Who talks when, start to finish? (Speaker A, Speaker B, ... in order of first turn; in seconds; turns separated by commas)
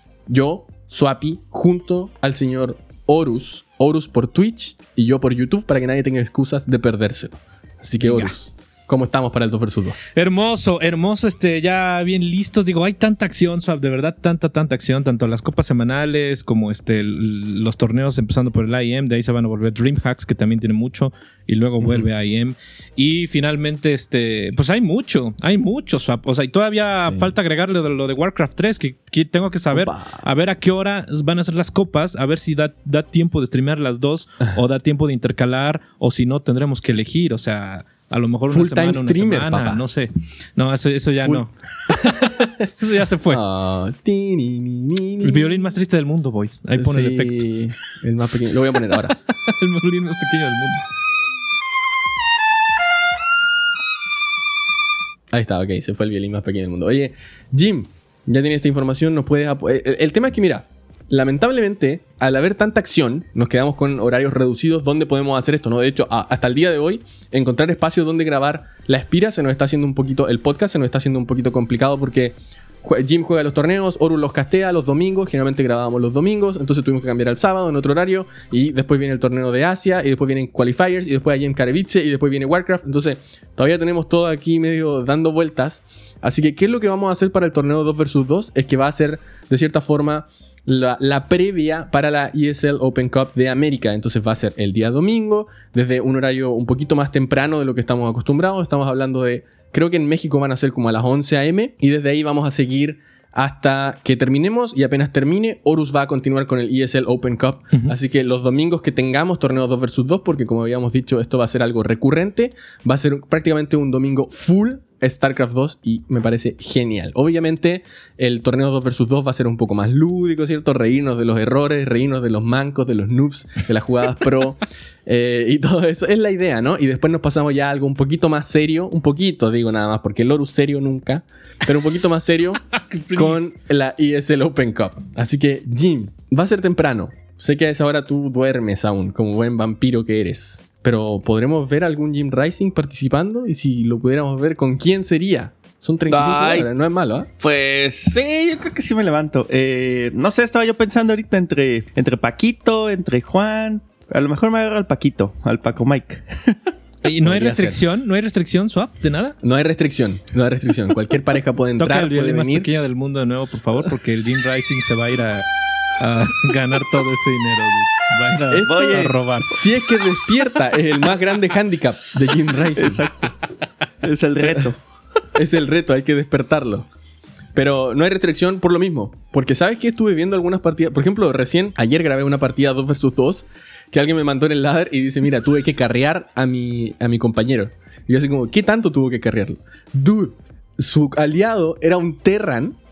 Speaker A: 0.3-10.0, Speaker B: 8.0-8.3, Speaker B: 10.1-42.2, Speaker A: 21.8-22.1, Speaker A: 27.0-27.3, Speaker A: 29.7-30.2, Speaker A: 38.5-39.8, Speaker A: 41.2-42.7, Speaker B: 42.8-43.4, Speaker A: 43.3-45.6, Speaker B: 45.2-47.5, Speaker A: 46.8-49.1, Speaker B: 49.1-50.8, Speaker A: 55.3-147.3, Speaker B: 132.7-133.5, Speaker C: 146.1-146.7, Speaker C: 147.4-156.6, Speaker B: 157.0-159.3, Speaker A: 157.2-157.8, Speaker A: 159.4-162.7, Speaker B: 161.8-165.4, Speaker B: 166.0-169.6, Speaker A: 168.5-173.1, Speaker C: 168.7-169.2, Speaker C: 172.7-173.4, Speaker C: 174.0-174.8, Speaker A: 175.3-176.9, Speaker A: 177.5-192.8